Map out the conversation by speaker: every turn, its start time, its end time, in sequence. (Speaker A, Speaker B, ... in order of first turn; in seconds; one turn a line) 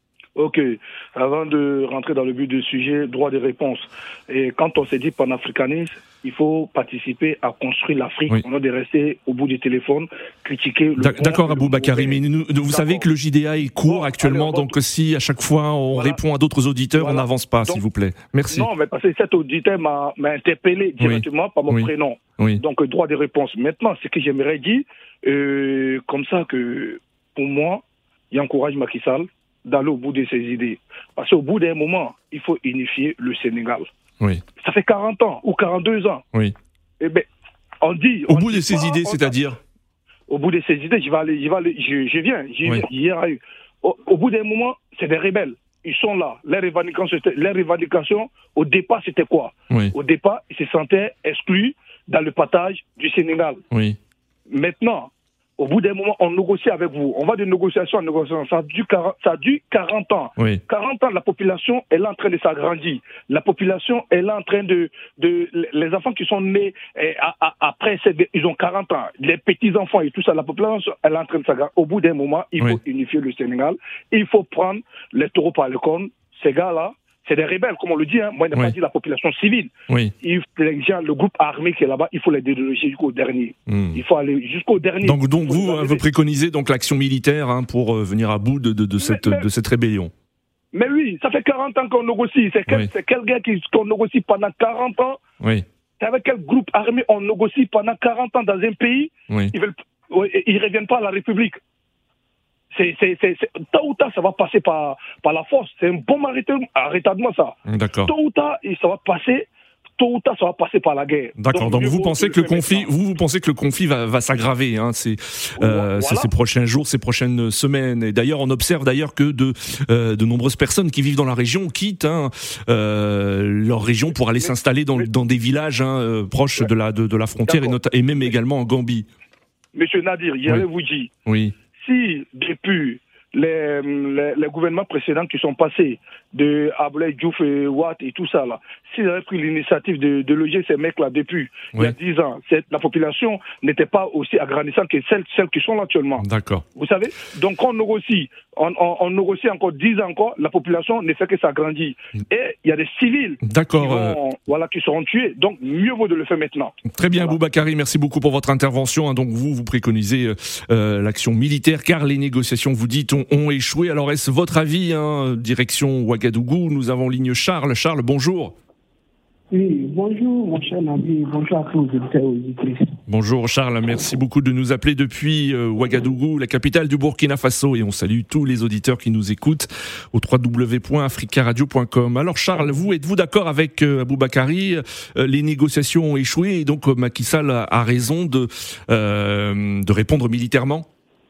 Speaker A: 0.3-13.1
Speaker B: 11.0-18.7
Speaker A: 13.8-14.8
Speaker A: 15.9-16.2
Speaker A: 16.9-17.8
Speaker A: 18.5-33.9
Speaker B: 21.0-22.6
Speaker A: 34.6-36.2
Speaker A: 37.0-37.3
Speaker A: 37.8-39.4
Speaker B: 38.3-39.6
Speaker A: 40.3-53.6
Speaker B: 49.7-49.9
Speaker B: 53.7-54.0
Speaker A: 54.5-86.0
Speaker B: 79.9-80.1
Speaker B: 83.7-84.0
Speaker B: 85.0-90.1
Speaker A: 89.0-89.5
Speaker A: 90.7-95.2
Speaker A: 96.0-101.6
Speaker A: 102.7-112.9
Speaker B: 107.7-108.1
Speaker B: 111.4-129.1
Speaker A: 115.6-116.3
Speaker A: 124.1-125.1
Speaker A: 127.5-128.3
Speaker A: 129.7-131.1
Speaker B: 131.2-131.6
Speaker A: 131.7-157.4
Speaker B: 146.2-146.6
Speaker B: 153.4-154.2
Speaker B: 156.9-168.5
Speaker C: 169.5-172.9
Speaker B: 173.1-190.8